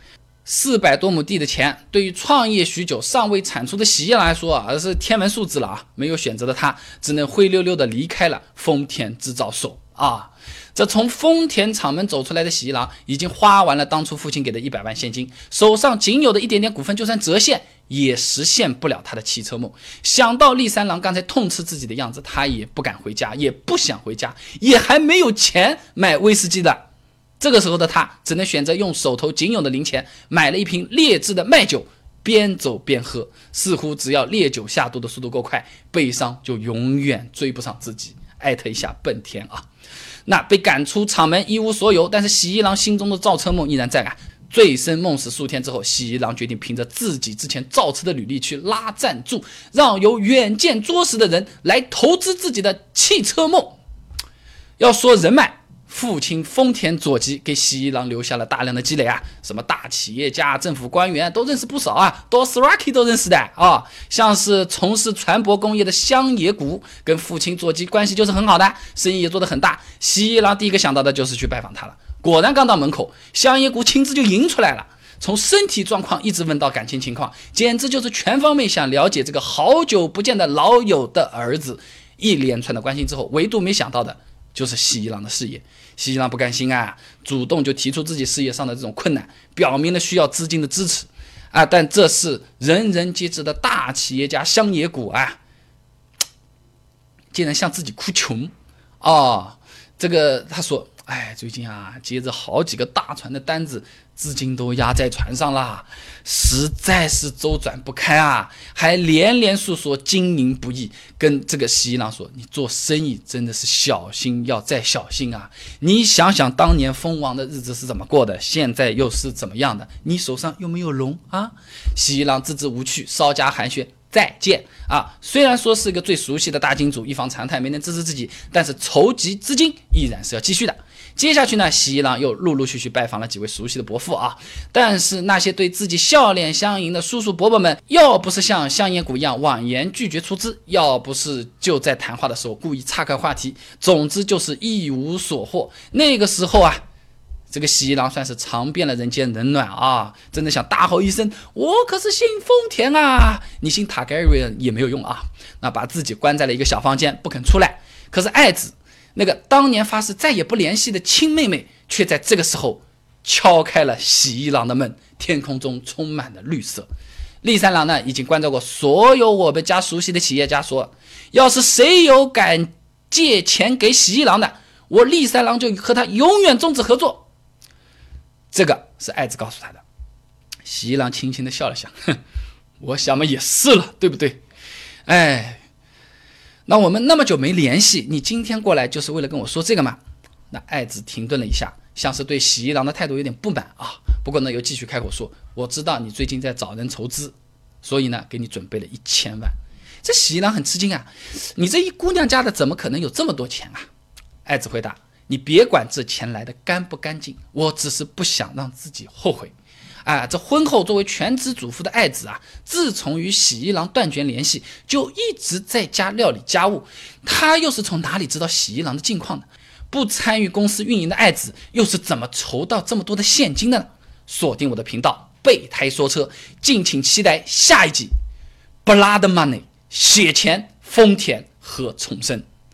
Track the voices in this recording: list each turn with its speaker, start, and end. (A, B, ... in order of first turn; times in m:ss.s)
0:00.4-0:26.8 A
0:27.4-0:39.7 A
0:40.3-0:53.8 A
0:54.8-1:35.4 A
1:37.3-2:26.8 A
2:27.5-2:46.9 A
2:47.4-2:57.3 A
2:58.5-2:59.8 A
3:00.6-3:02.2 A
3:02.8-3:04.4 A
3:05.1-3:05.6 A
3:06.7-3:10.0 A
3:10.5-3:23.9 A
3:24.4-3:29.5 A
3:30.0-3:48.1 A
3:48.8-3:52.4 A